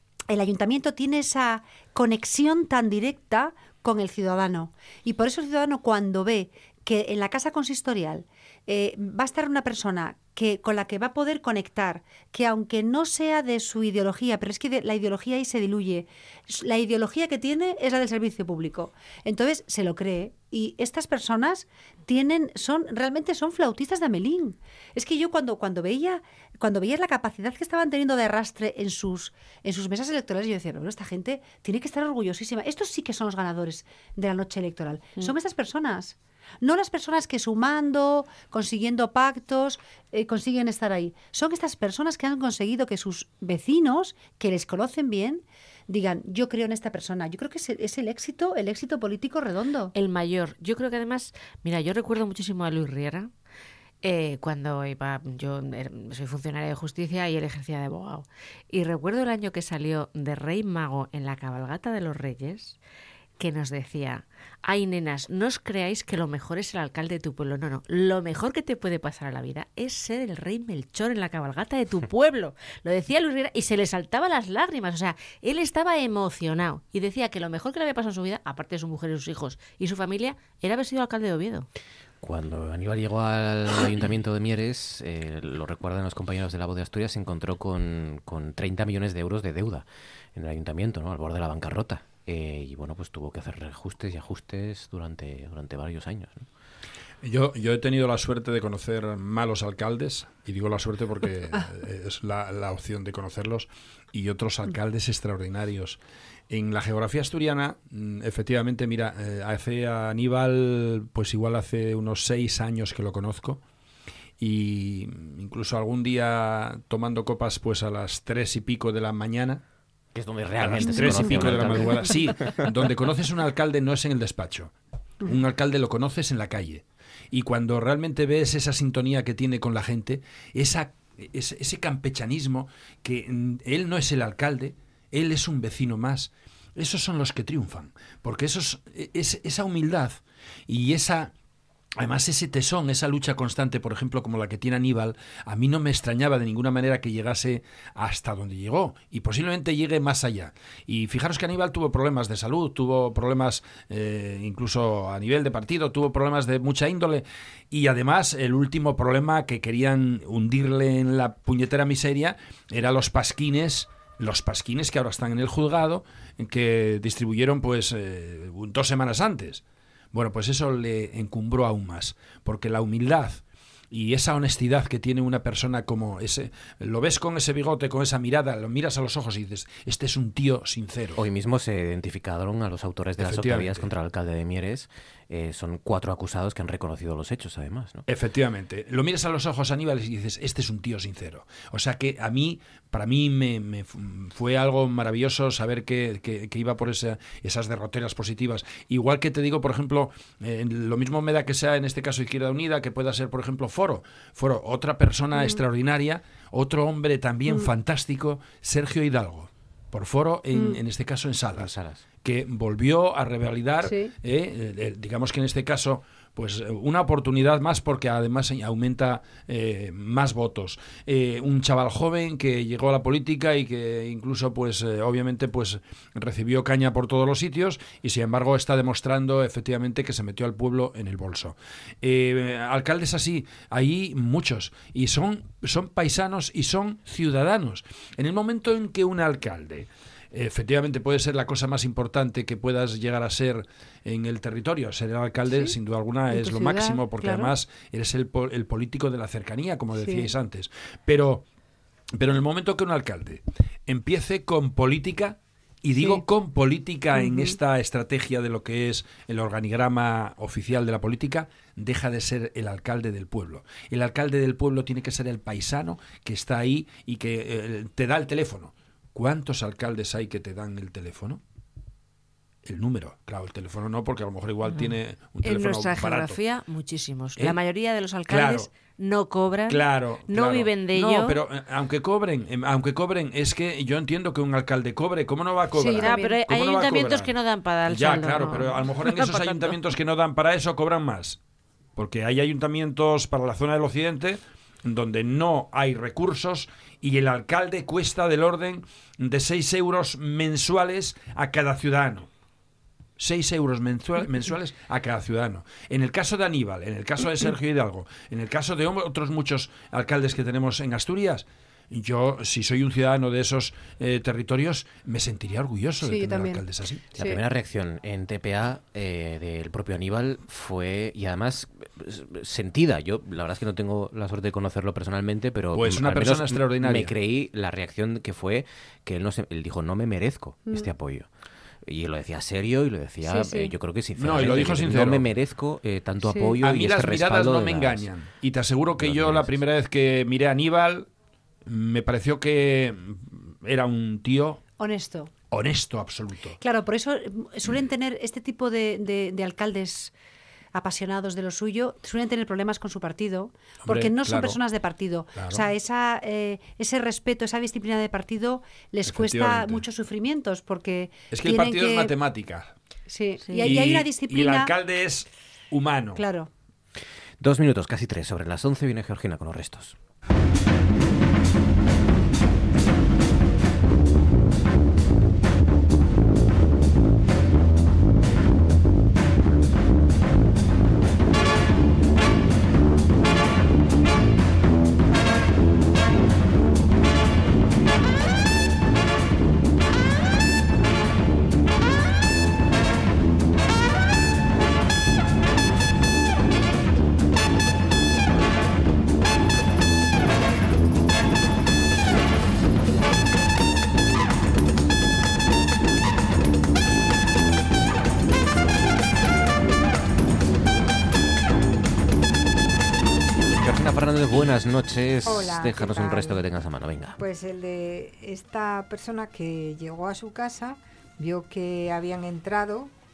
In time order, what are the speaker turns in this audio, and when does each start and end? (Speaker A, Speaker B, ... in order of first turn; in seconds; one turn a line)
Speaker A: 0.3-49.9
Speaker B: 49.9-53.3
Speaker B: 54.0-62.8
Speaker B: 63.4-81.7
Speaker C: 82.2-96.5
Speaker D: 97.2-106.0
Speaker D: 106.5-113.6
Speaker D: 114.4-119.6
Speaker C: 120.2-122.3
Speaker D: 120.6-141.3
Speaker A: 120.9-121.2
Speaker D: 142.0-169.6
Speaker D: 170.1-181.2
Speaker C: 181.2-188.1
Speaker D: 183.2-183.8
Speaker D: 188.1-251.4
Speaker A: 205.3-205.6
Speaker A: 210.5-210.8
Speaker C: 211.6-212.0
Speaker A: 213.8-214.1
Speaker A: 245.4-245.8
Speaker A: 246.3-247.6
Speaker A: 249.9-250.3
Speaker D: 252.2-271.4
Speaker A: 256.0-256.3
Speaker A: 257.1-257.6
Speaker D: 272.6-276.4
Speaker B: 274.7-281.4
Speaker D: 278.3-278.7
Speaker D: 279.7-287.3
Speaker A: 285.7-286.5
Speaker B: 286.0-289.8
Speaker D: 287.9-291.4
Speaker D: 292.0-302.3
Speaker D: 303.2-317.1
Speaker A: 316.0-316.7
Speaker C: 317.2-331.3
Speaker D: 325.7-327.1
Speaker A: 330.7-330.9
Speaker C: 331.9-338.1
Speaker A: 333.2-333.7
Speaker D: 334.2-335.3
Speaker A: 336.2-336.6
Speaker D: 336.6-341.1
Speaker C: 339.0-339.6
Speaker D: 341.7-344.6
Speaker A: 344.7-345.3
Speaker D: 345.5-346.6
Speaker A: 346.6-350.1
Speaker A: 350.8-362.1
Speaker D: 353.8-354.6
Speaker D: 355.4-355.6
Speaker D: 359.1-359.9
Speaker D: 361.3-362.7
Speaker A: 363.1-364.7
Speaker B: 363.5-363.7
Speaker D: 363.5-366.2
Speaker A: 366.1-366.5
Speaker C: 367.4-369.9
Speaker C: 413.6-417.2
Speaker E: 415.2-416.4
Speaker E: 417.2-422.9